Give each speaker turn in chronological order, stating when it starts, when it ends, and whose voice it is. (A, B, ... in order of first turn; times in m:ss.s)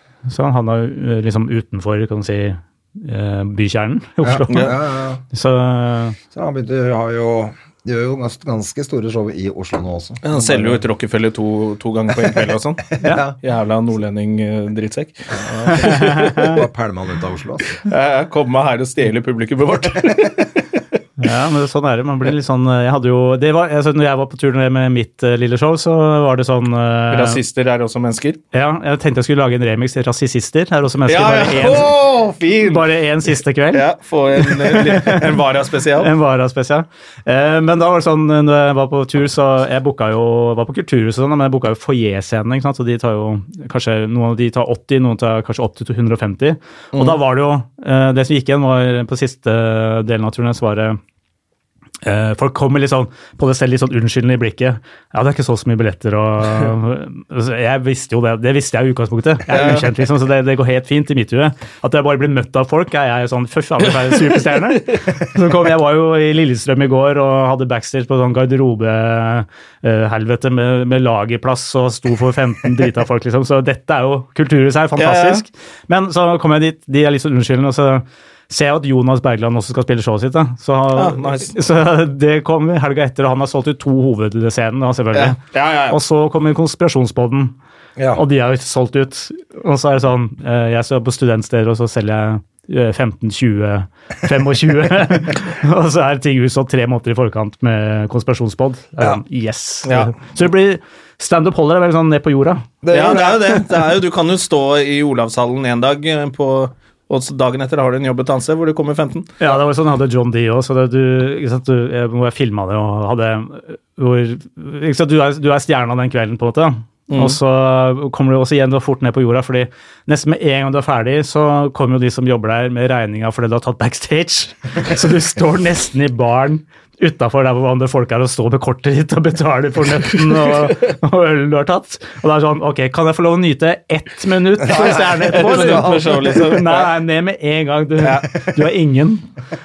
0:00.3-0:04.7 A
0:04.2-0:05.2 B
0:05.3-0:06.2 A
0:06.3-0:10.8 B
0:10.2-0:16.3 C
0:13.0-0:13.4 B
0:15.5-0:17.7 B
0:15.7-0:16.6 A
0:17.8-0:20.6 C
0:21.2-0:27.4 A
0:27.1-0:28.4 C
0:28.5-0:32.0 A
0:31.1-0:32.9 C
0:32.6-0:35.4 A
0:33.7-0:36.1 C
0:36.0-0:51.0 A
0:52.0-1:25.4 A
0:59.5-0:59.9 C
1:04.1-1:05.0 C
1:15.0-1:15.4 C
1:21.0-1:21.6 C
1:25.1-1:26.0 C
1:25.9-1:27.6 A
1:28.0-1:28.2 B
1:28.2-1:42.7 A
1:39.8-1:40.1 C
1:42.8-1:43.7 B
1:42.9-1:49.4 C
1:49.4-2:19.3 A
1:57.1-1:57.4 C
2:10.2-2:10.7 C
2:14.6-2:16.4 B
2:14.9-2:16.9 C
2:18.0-2:18.3 C